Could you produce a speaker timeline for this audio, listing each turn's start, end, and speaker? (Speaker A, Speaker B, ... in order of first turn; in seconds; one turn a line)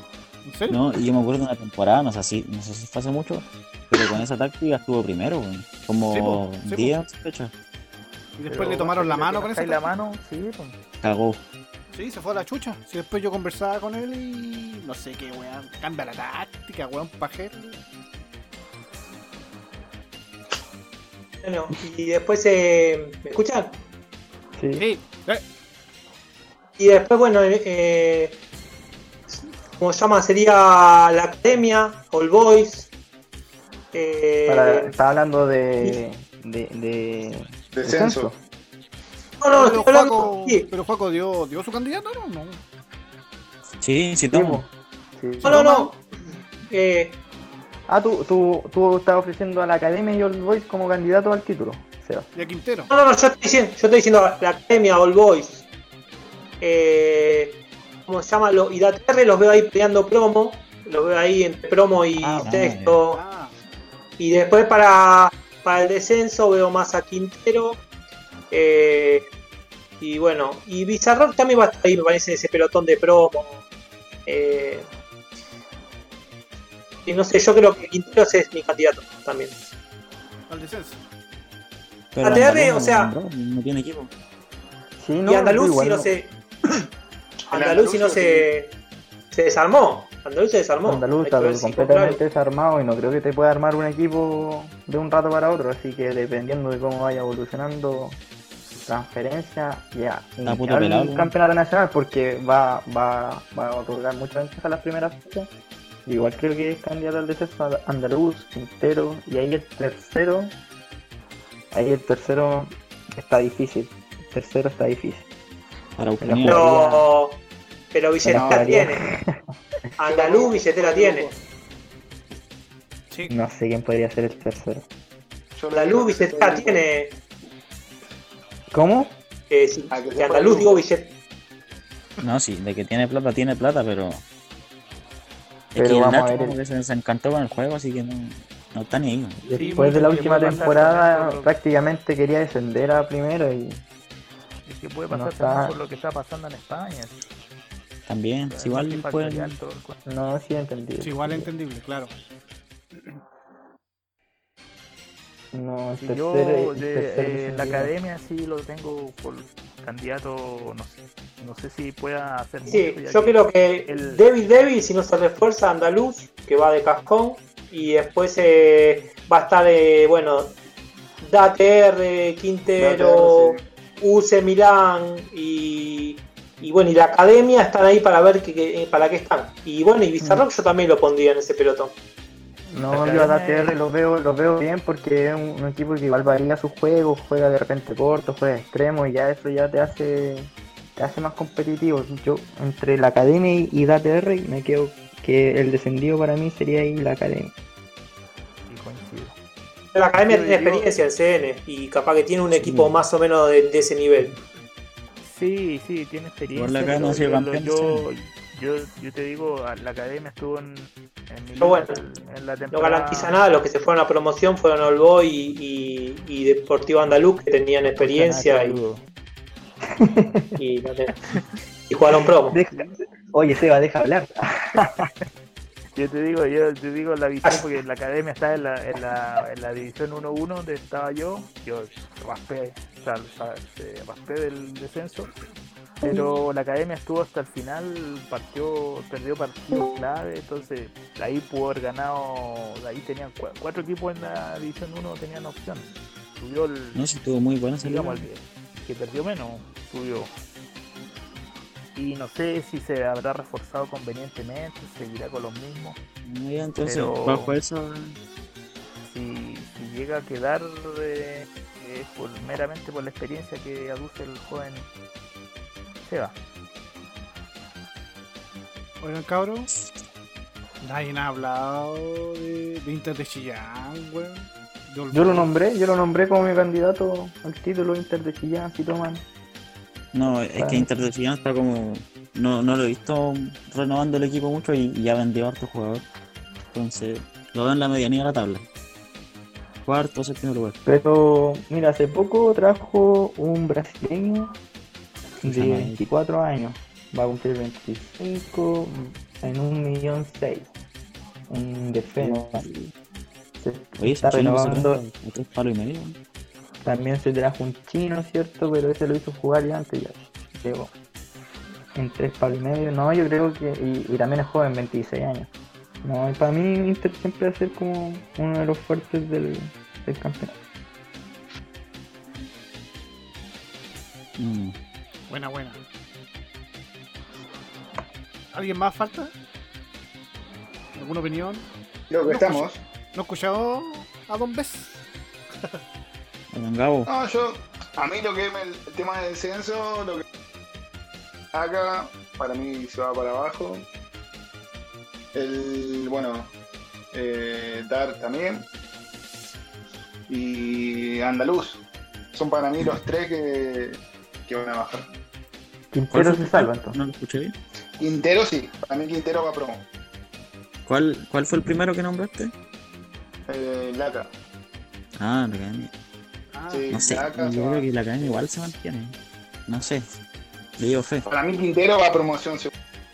Speaker A: 0.4-0.8
Speaker B: 0.7-7.5
Speaker A: 6.1-7.0
Speaker A: 8.4-9.9
Speaker C: 8.5-10.8
Speaker B: 11.0-11.4
Speaker A: 11.9-17.8
Speaker D: 21.4-23.8
Speaker E: 24.6-24.8
Speaker A: 24.8-25.4
Speaker D: 26.8-28.4
Speaker D: 29.8-32.9
Speaker D: 33.9-35.0
Speaker E: 34.5-38.4
Speaker F: 37.7-38.3
Speaker D: 39.4-40.7
Speaker A: 39.5-42.6
Speaker B: 43.8-44.6
Speaker E: 44.3-45.9
Speaker D: 45.4-46.0
Speaker D: 46.7-47.2
Speaker E: 47.9-52.3
Speaker A: 52.3-52.9
Speaker D: 52.9-55.7
Speaker D: 56.6-63.2
Speaker B: 62.2-63.0
Speaker A: 63.1-63.5
Speaker D: 64.2-67.8
Speaker D: 68.5-69.3
Speaker D: 70.0-73.6
Speaker D: 74.2-74.9
Speaker D: 77.0-79.5
Speaker A: 80.5-81.0
Speaker B: 82.1-84.1
Speaker D: 82.2-83.1
Speaker E: 85.0-86.1
Speaker D: 85.2-86.4
Speaker D: 87.5-88.7
Speaker F: 87.5-88.5
Speaker D: 89.3-92.2
Speaker E: 90.8-98.2
Speaker E: 98.8-105.5
Speaker B: 100.4-101.3
Speaker E: 106.0-110.5
Speaker E: 111.7-115.2
Speaker B: 116.0-116.6
Speaker E: 116.2-117.1
Speaker D: 116.4-117.4
Speaker D: 117.9-119.0
Speaker E: 118.2-119.3
Speaker F: 118.3-118.7
Speaker D: 120.0-121.3
Speaker F: 120.0-121.3
Speaker E: 123.3-124.8
Speaker F: 125.5-126.8
Speaker D: 125.7-127.2
Speaker E: 128.7-129.2
Speaker D: 129.5-131.2
Speaker F: 129.9-130.8
Speaker B: 132.2-134.2
Speaker B: 135.7-139.4
Speaker E: 135.7-136.6
Speaker E: 139.4-143.8
Speaker C: 139.5-141.5
Speaker A: 139.6-140.5
Speaker C: 144.6-147.2
Speaker E: 145.1-145.8
Speaker B: 148.1-149.6
Speaker C: 148.5-149.9
Speaker E: 150.1-151.5
Speaker A: 151.0-152.1
Speaker E: 155.5-157.9
Speaker C: 156.0-164.2
Speaker D: 162.7-170.6
Speaker D: 171.2-181.9
Speaker F: 172.8-173.6
Speaker E: 180.2-180.4
Speaker E: 182.7-197.5
Speaker C: 182.9-183.8
Speaker C: 198.7-199.3
Speaker D: 199.9-204.4
Speaker C: 200.3-200.7
Speaker B: 202.5-203.0
Speaker C: 205.2-213.4
Speaker B: 206.5-208.1
Speaker D: 211.6-212.0
Speaker D: 212.7-218.8
Speaker C: 217.9-219.0
Speaker E: 219.9-220.6
Speaker D: 220.6-221.2
Speaker D: 221.9-222.6
Speaker E: 222.5-225.1
Speaker C: 225.9-235.3
Speaker C: 236.0-247.0
Speaker B: 246.9-248.3
Speaker C: 247.8-250.3
Speaker C: 251.9-256.0
Speaker B: 256.2-258.2
Speaker C: 256.8-257.5
Speaker C: 259.1-264.9
Speaker C: 266.0-266.4
Speaker A: 269.0-269.7
Speaker A: 270.8-275.5
Speaker E: 275.1-279.2
Speaker B: 280.1-286.1
Speaker E: 280.6-280.9
Speaker B: 286.7-288.6
Speaker B: 289.9-290.8
Speaker E: 290.8-294.6
Speaker B: 295.4-296.0
Speaker E: 295.4-300.7
Speaker E: 301.5-302.7
Speaker B: 302.2-302.9
Speaker E: 303.6-305.0
Speaker B: 304.0-306.2
Speaker E: 306.8-310.9
Speaker E: 311.9-315.5
Speaker E: 316.0-320.5
Speaker B: 324.4-324.7
Speaker A: 325.3-325.8
Speaker A: 328.5-329.3
Speaker A: 330.9-331.7
Speaker F: 332.1-332.8
Speaker A: 332.2-335.0
Speaker B: 336.5-337.1
Speaker F: 337.1-340.2
Speaker F: 341.5-343.9
Speaker F: 345.3-346.5
Speaker F: 347.1-348.6
Speaker F: 350.3-355.1
Speaker E: 355.9-357.0
Speaker B: 356.1-357.6
Speaker F: 358.0-359.8
Speaker B: 360.9-362.5
Speaker F: 363.5-364.3
Speaker B: 365.2-365.9
Speaker A: 366.5-366.9
Speaker F: 366.7-368.4
Speaker B: 366.9-369.1
Speaker B: 369.7-370.0
Speaker B: 370.8-371.3
Speaker F: 371.3-372.7